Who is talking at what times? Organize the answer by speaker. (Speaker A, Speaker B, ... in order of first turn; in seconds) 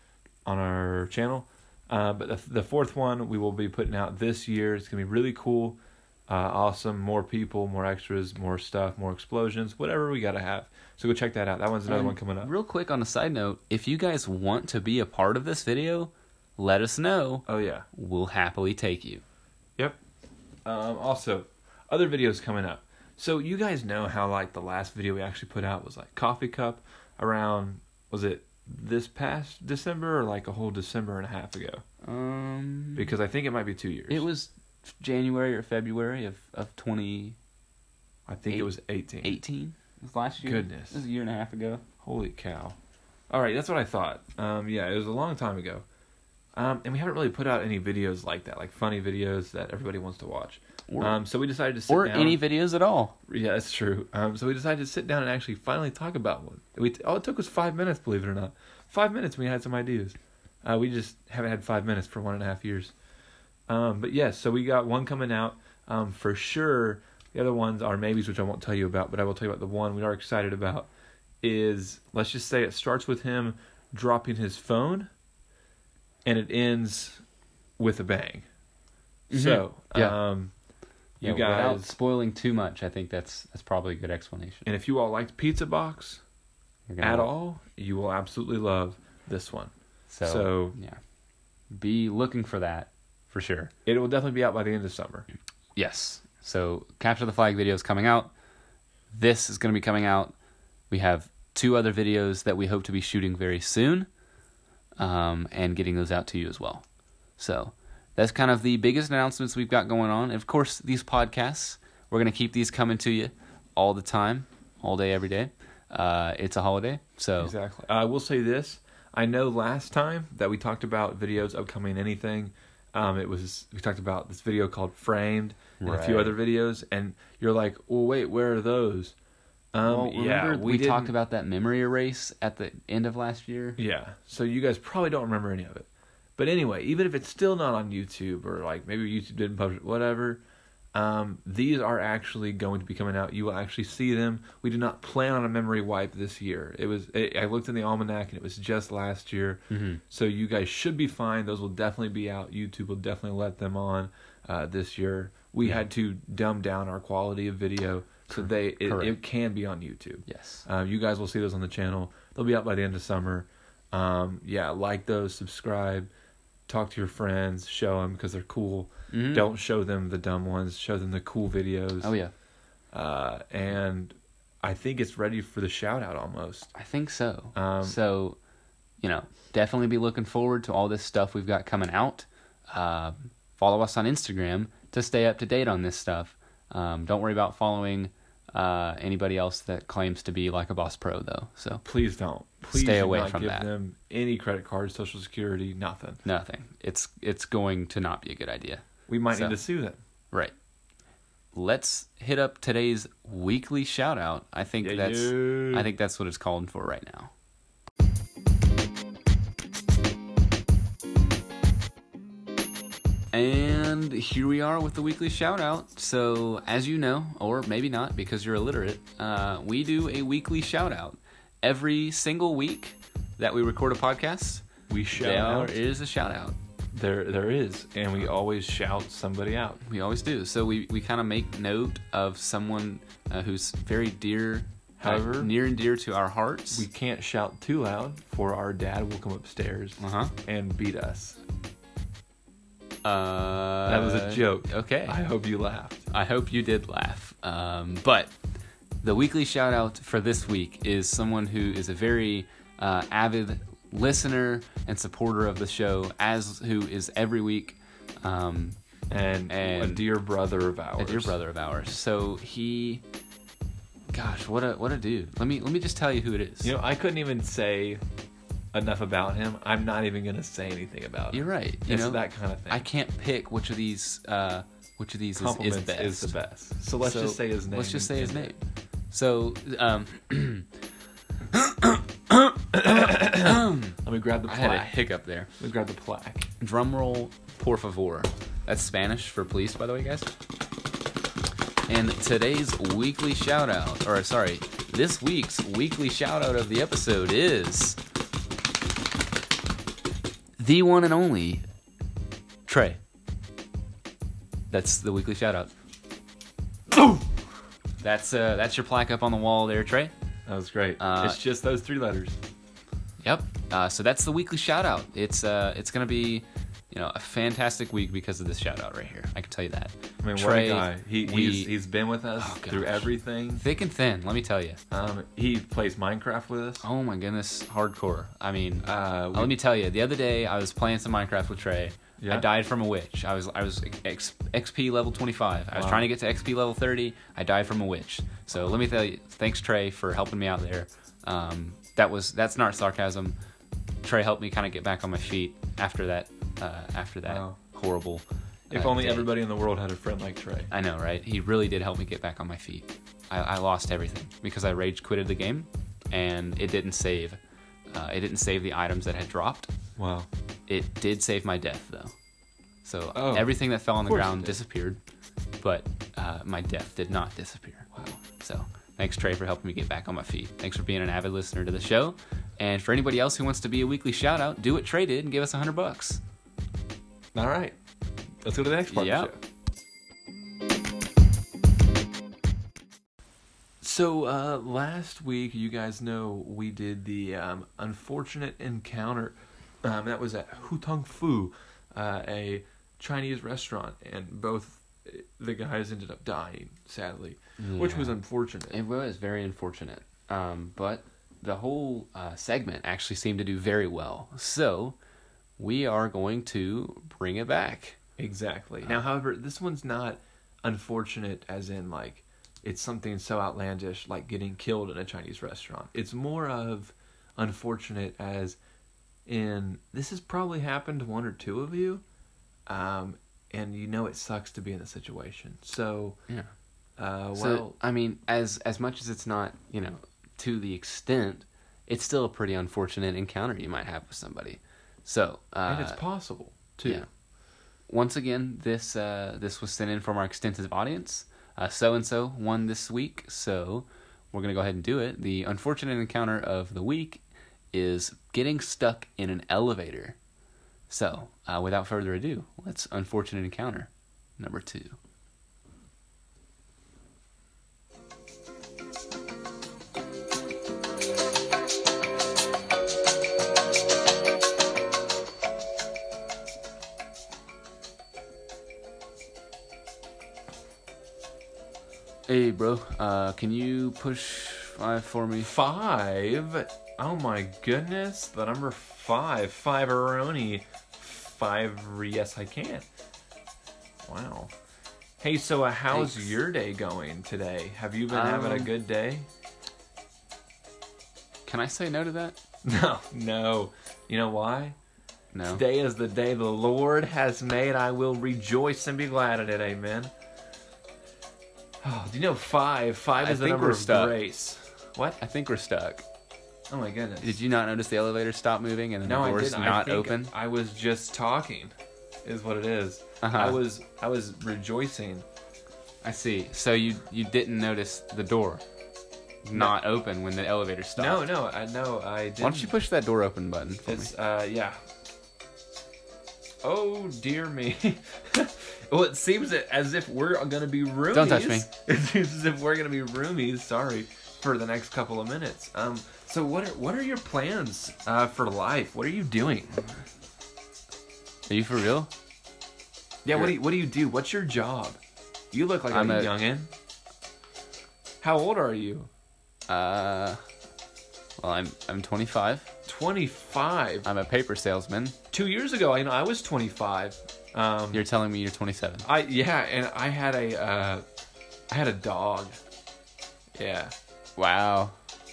Speaker A: 0.5-12.5, 17.5-17.9, 20.6-31.8, 33.0-34.2, 38.3-39.4, 40.4-41.0, 42.0-42.8, 43.3-45.8, 46.5-52.4, 53.3-62.9, 63.7-70.9, 71.4-75.1, 76.2-77.2, 77.8-78.5, 79.3-80.5, 81.2-81.9, 84.6-86.2, 87.0-89.7, 90.2-90.8, 93.8-95.2, 117.4-129.2, 129.7-131.1, 133.8-140.4, 140.9-166.1, 166.7-172.1, 172.9-176.7, 177.5-178.0, 191.8-196.2, 199.1-200.0, 204.8-205.9, 224.9-225.7, 226.9-229.8, 235.0-235.5, 236.7-241.4, 243.8-246.1, 259.1-261.4, 266.6-268.0, 268.7-272.8, 275.4-278.5, 282.7-285.0, 285.6-286.5, 306.9-307.3, 310.4-312.4, 320.2-323.6, 324.9-326.9, 328.8-329.5, 332.2-332.5, 335.7-336.1, 338.5-338.8, 347.2-347.6, 348.7-350.7, 359.9-360.3, 363.1-364.6, 367.9-368.2, 377.3-377.8, 378.4-379.4, 383.8-398.8, 408.2-418.6, 419.2-422.0, 422.7-426.2, 427.0-427.8, 435.7-437.1, 475.4-482.9, 484.0-484.5, 485.2-489.3, 492.6-494.8, 495.4-500.1, 501.8-505.2, 506.7-507.4, 509.0-511.7, 512.2-515.2, 521.0-522.7, 523.9-524.8, 526.6-539.8, 543.2-545.0, 545.5-546.7, 548.2-549.1, 552.9-554.1, 555.3-558.0, 559.0-561.0, 561.7-562.6, 563.5-563.9
Speaker B: 11.9-19.2, 32.0-33.1, 34.1-37.4, 39.2-41.8, 50.9-51.2, 51.9-53.1, 79.3-80.2, 81.2-84.7, 86.9-87.3, 90.1-91.0, 91.7-93.7, 95.8-98.3, 99.1-100.3, 100.9-104.1, 105.0-106.8, 107.4-117.5, 125.8-126.3, 129.8-133.8, 149.7-150.0, 158.3-159.2, 160.3-160.6, 169.1-169.5, 172.0-172.3, 176.7-178.4, 179.0-191.8, 192.7-193.7, 196.2-199.6, 201.5-207.3, 213.3-226.6, 229.8-236.8, 240.0-240.3, 243.0-245.2, 246.1-248.3, 249.0-258.8, 259.5-260.1, 261.0-263.0, 264.1-266.7, 271.3-276.3, 277.0-280.7, 281.5-285.5, 286.6-290.3, 291.9-298.0, 300.6-301.6, 302.7-303.0, 304.7-305.7, 308.0-310.1, 311.0-311.4, 313.2-321.7, 322.4-324.8, 326.8-343.4, 344.0-349.3, 350.7-357.4, 357.9-359.7, 360.7-362.1, 362.8-365.0, 365.6-376.2, 378.9-379.3, 397.6-398.1, 398.7-404.9, 405.6-408.0, 427.4-436.0, 437.9-450.2, 450.9-455.0, 472.3-475.5, 485.9-486.3, 488.1-488.7, 491.4-492.4, 495.3-495.6, 503.2-504.2, 505.2-506.0, 507.2-510.3, 513.2-513.6, 516.0-518.6, 519.4-521.2, 522.4-524.1, 531.1-531.7, 541.5-542.1, 545.9-546.3, 549.7-550.4, 551.4-552.7, 554.0-555.2, 557.9-559.1, 564.4-564.9